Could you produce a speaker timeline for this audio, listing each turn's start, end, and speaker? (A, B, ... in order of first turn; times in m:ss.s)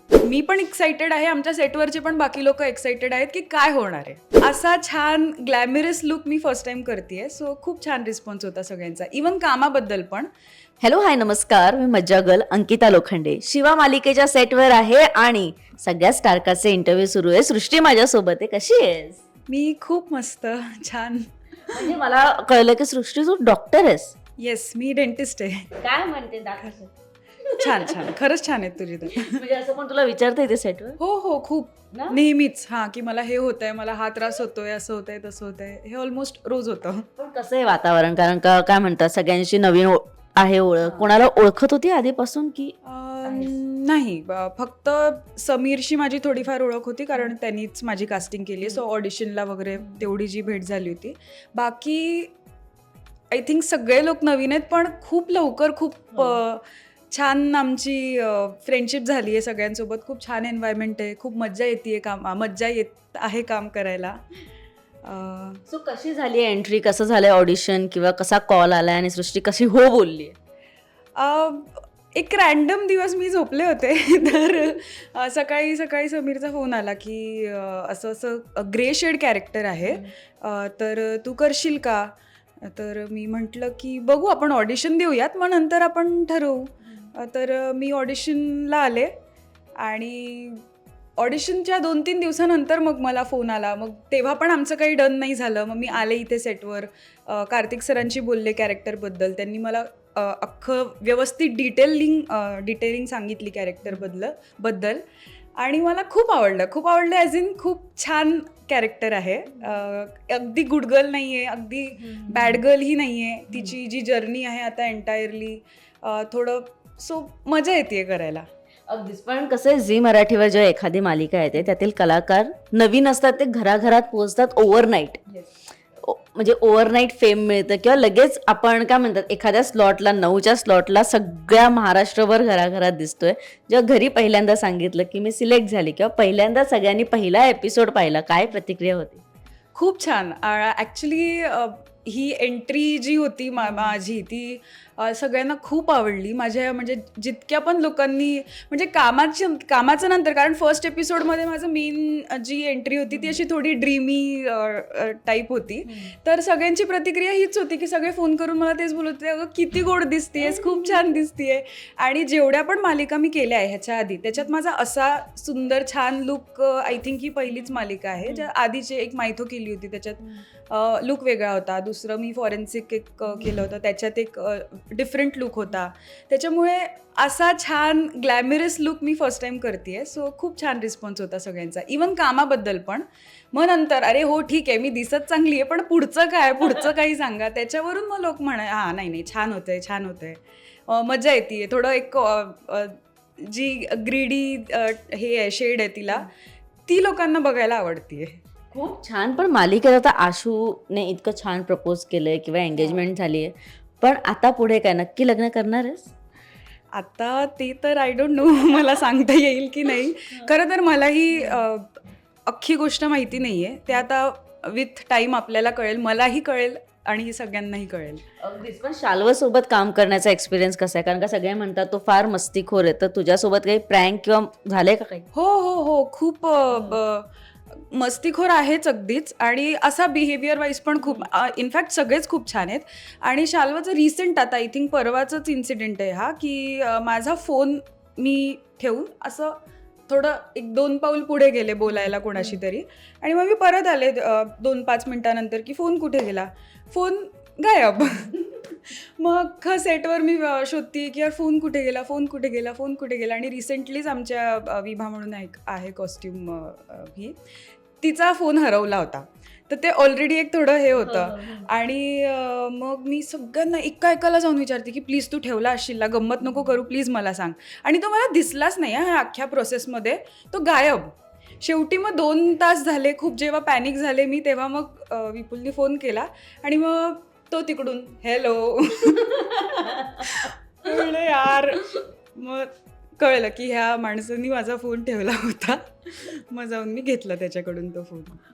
0:00.2-0:10.3 A
0:10.8-0:19.2 B
0:19.5-0:21.9 A
0:21.7-0:24.1 B
0:24.4-0:25.7 A
0:25.8-0:26.9 B
0:27.4-0:28.1 B
0:27.5-0:29.4 A
0:29.1-0:31.0 B
0:31.0-0:37.1 A
0:31.9-0:32.2 B
0:37.2-0:43.6 B
0:42.8-0:52.3 A
0:53.3-1:04.2 A
1:05.0-1:05.6 A
1:05.7-1:10.4 B
1:11.2-1:29.1 A
1:29.8-1:30.6 A
1:31.2-1:45.0 A
1:45.6-1:58.5 A
1:52.0-1:52.6 B
1:58.9-2:05.2 B
2:06.0-2:19.2 B
2:19.8-3:16.3 A
2:40.4-2:41.1 B
3:16.9-3:18.4 A
3:18.7-3:26.1 B
3:26.9-3:38.2 A
3:38.4-3:45.3 B
3:45.3-3:59.6 A
3:46.7-3:47.0 B
4:00.1-4:17.4 A
4:01.9-4:02.6 B
4:18.0-4:48.4 A
4:21.0-4:21.7 B
4:39.6-4:40.4 B